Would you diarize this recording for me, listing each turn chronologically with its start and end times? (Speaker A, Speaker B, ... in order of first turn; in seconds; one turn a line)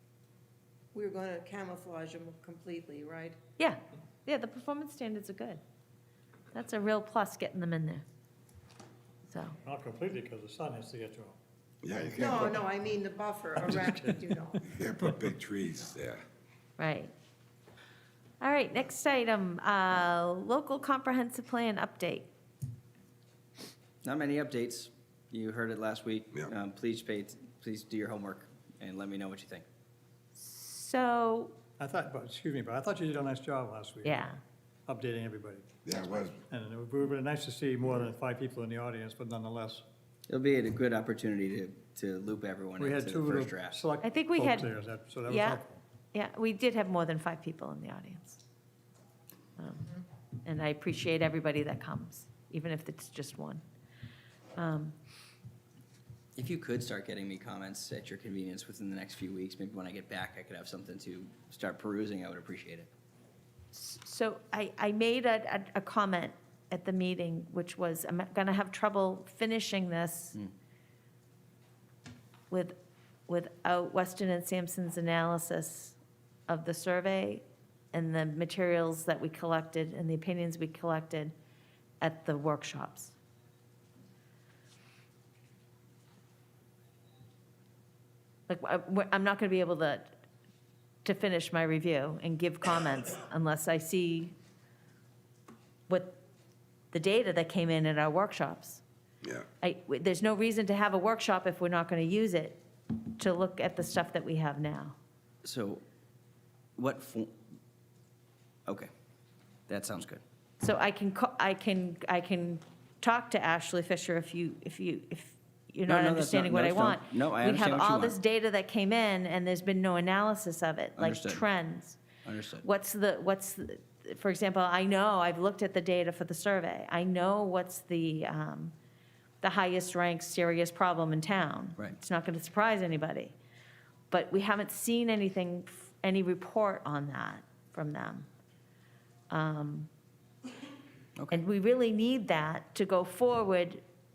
Speaker A: 0.9-3.4
Speaker B: 3.6-5.6
Speaker B: 6.5-8.0
Speaker B: 9.3-9.6
Speaker C: 9.6-11.4
Speaker D: 11.8-12.6
Speaker A: 12.0-14.7
Speaker C: 13.6-14.6
Speaker D: 14.7-16.2
Speaker B: 16.8-17.1
Speaker B: 18.4-22.3
Speaker E: 24.0-29.7
Speaker B: 30.4-31.6
Speaker C: 31.8-34.3
Speaker B: 34.0-34.4
Speaker C: 34.9-35.8
Speaker D: 35.9-36.4
Speaker C: 36.4-39.8
Speaker E: 40.3-43.8
Speaker C: 42.8-45.8
Speaker B: 44.0-44.7
Speaker B: 45.3-45.6
Speaker B: 46.1-48.4
Speaker B: 49.6-49.8
Speaker B: 50.4-53.6
Speaker B: 54.6-54.9
Speaker E: 56.4-62.9
Speaker B: 63.7-70.4
Speaker B: 72.5-72.8
Speaker B: 73.3-76.0
Speaker B: 76.5-81.3
Speaker B: 82.0-83.2
Speaker B: 88.5-90.1
Speaker B: 91.0-94.3
Speaker B: 95.9-96.2
Speaker B: 96.9-98.8
Speaker B: 99.6-102.6
Speaker B: 103.1-105.0
Speaker E: 105.4-105.8
Speaker E: 106.8-107.3
Speaker E: 109.7-110.2
Speaker B: 110.6-122.0
Speaker E: 115.9-118.2
Speaker E: 121.0-121.5
Speaker E: 122.2-122.7
Speaker B: 122.6-128.7
Speaker B: 129.4-133.3
Speaker B: 134.1-138.3
Speaker B: 139.3-139.9
Speaker B: 141.3-143.8